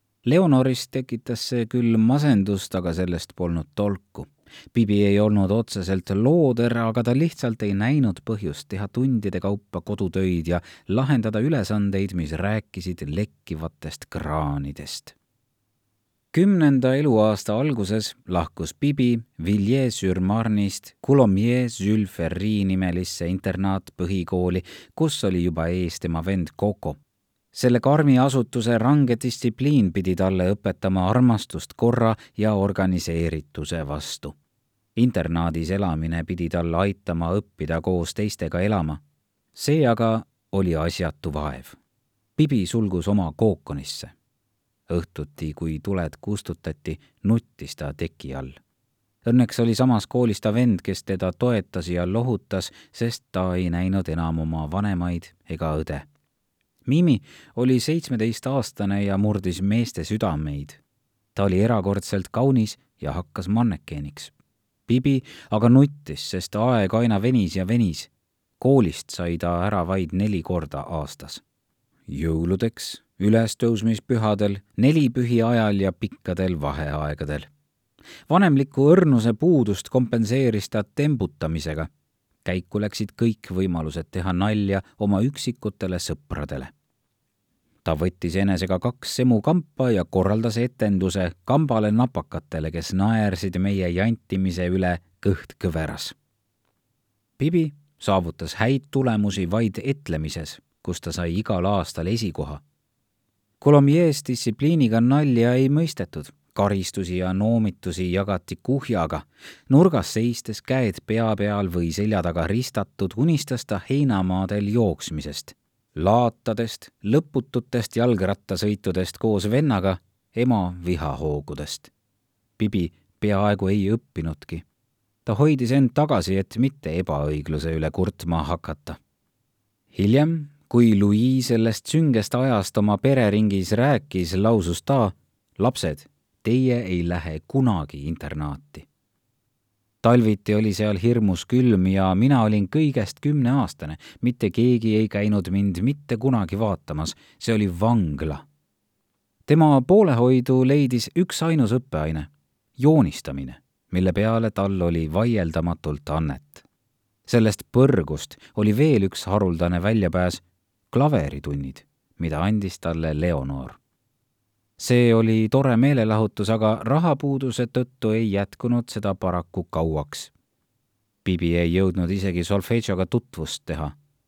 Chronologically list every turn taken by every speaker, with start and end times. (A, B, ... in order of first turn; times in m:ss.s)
0:00.2-0:15.2 A
0:16.3-0:27.0 A
0:27.5-0:34.4 A
0:35.0-0:39.0 A
0:39.5-0:41.8 A
0:42.4-0:44.1 A
0:44.9-0:48.6 A
0:49.2-0:56.1 A
0:56.8-1:00.8 A
1:01.4-1:04.3 A
1:04.9-1:11.4 A
1:12.1-1:17.5 A
1:18.3-1:21.9 A
1:22.4-1:26.7 A
1:27.8-1:36.2 A
1:37.4-1:42.6 A
1:43.6-2:01.9 A
2:02.6-2:04.6 A
2:05.3-2:09.0 A
2:09.9-2:18.9 A
2:20.0-2:28.4 A
2:29.5-2:36.6 A
2:37.3-2:43.8 A
2:44.8-2:50.3 A
2:51.2-2:54.0 A